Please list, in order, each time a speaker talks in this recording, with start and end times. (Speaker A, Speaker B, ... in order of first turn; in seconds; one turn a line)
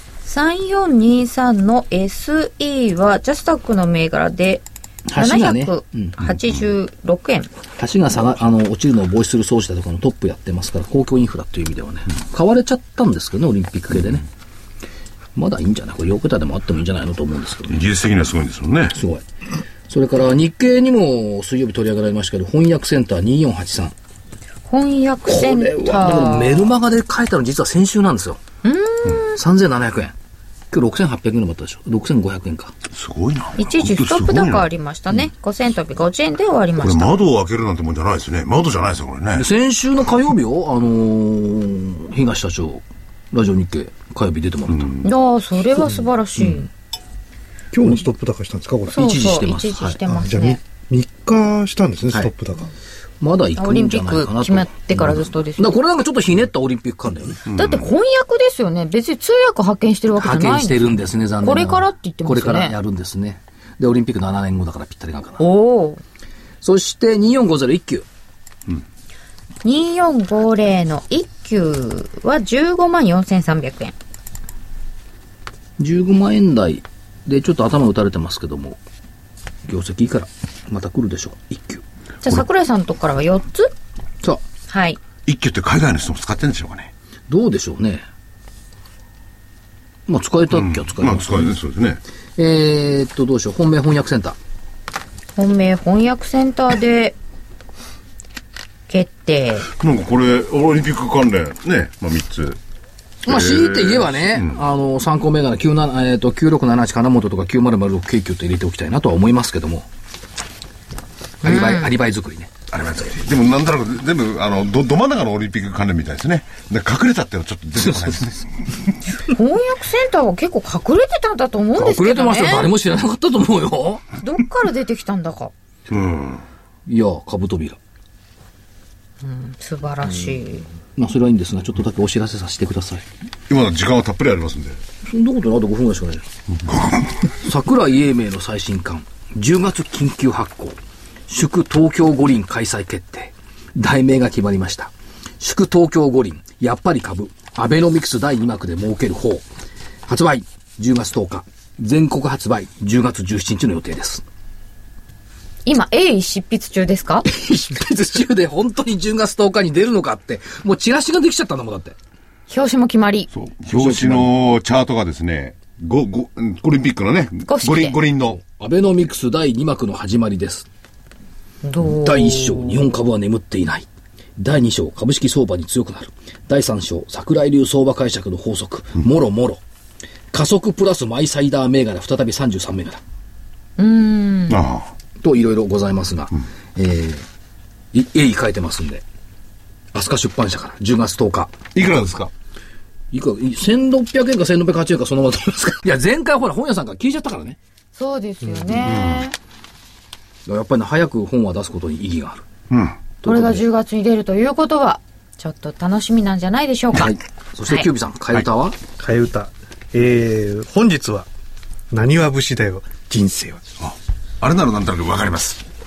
Speaker A: 0.2-4.6
Speaker B: 5.1-6.2
Speaker A: 5.1-7.5
Speaker B: 7.8-14.2
Speaker B: 15.3-17.8
Speaker C: 17.7-19.0
Speaker B: 18.9-19.2
Speaker B: 19.9-23.9
Speaker A: 24.7-26.7
Speaker B: 25.2-28.4
Speaker A: 28.6-29.4
Speaker B: 29.4-30.1
Speaker B: 30.7-32.7
Speaker C: 32.9-34.7
Speaker A: 33.6-37.2
Speaker C: 36.8-39.5
Speaker B: 39.3-45.0
Speaker C: 44.7-45.1
Speaker A: 45.0-46.7
Speaker B: 46.4-46.6
Speaker D: 47.7-49.2
Speaker B: 47.7-48.0
Speaker A: 48.9-50.6
Speaker B: 48.9-50.0
Speaker D: 50.0-52.7
Speaker B: 53.2-57.4
Speaker A: 53.6-55.7
Speaker C: 57.5-57.9
Speaker A: 57.5-60.8
Speaker B: 60.2-65.4
Speaker A: 61.4-62.8
Speaker A: 65.4-66.0
Speaker B: 66.6-68.0
Speaker A: 69.6-73.9
Speaker B: 75.8-78.8
Speaker B: 79.7-81.8
Speaker A: 82.2-83.7
Speaker A: 84.7-85.0
Speaker C: 85.2-86.9
Speaker B: 87.3-88.0
Speaker B: 90.1-91.6
Speaker C: 90.5-92.0
Speaker B: 92.4-94.4
Speaker A: 95.4-97.2
Speaker A: 98.9-99.7
Speaker C: 99.7-102.6
Speaker C: 103.2-104.6
Speaker B: 103.2-109.8
Speaker A: 111.4-111.9
Speaker B: 111.4-112.6
Speaker C: 112.7-118.5
Speaker B: 117.8-118.1
Speaker A: 119.2-122.7
Speaker B: 121.8-124.0
Speaker A: 124.2-125.5
Speaker C: 125.9-126.4
Speaker B: 126.9-127.8
Speaker A: 129.2-130.7
Speaker B: 131.0-133.0
Speaker C: 133.5-134.8
Speaker B: 135.0-136.2
Speaker B: 137.2-149.4
Speaker B: 150.1-154.2
Speaker A: 155.7-157.3
Speaker B: 157.3-161.9
Speaker A: 162.5-163.3
Speaker C: 163.3-168.4
Speaker B: 163.7-164.3
Speaker A: 167.5-168.0
Speaker B: 168.3-170.7
Speaker A: 171.6-172.8
Speaker B: 171.8-173.8
Speaker B: 174.4-179.6
Speaker B: 180.3-183.0
Speaker A: 183.8-184.6
Speaker C: 184.5-184.9
Speaker B: 185.2-187.2
Speaker B: 187.9-189.0
Speaker B: 189.9-191.6
Speaker C: 191.7-192.3
Speaker B: 193.1-197.6
Speaker A: 197.9-199.3
Speaker C: 198.8-199.3
Speaker B: 200.4-202.4
Speaker C: 202.7-203.0
Speaker B: 203.2-203.6
Speaker A: 203.2-207.1
Speaker B: 206.9-208.8
Speaker D: 209.0-211.3
Speaker D: 211.9-213.6
Speaker C: 213.8-215.6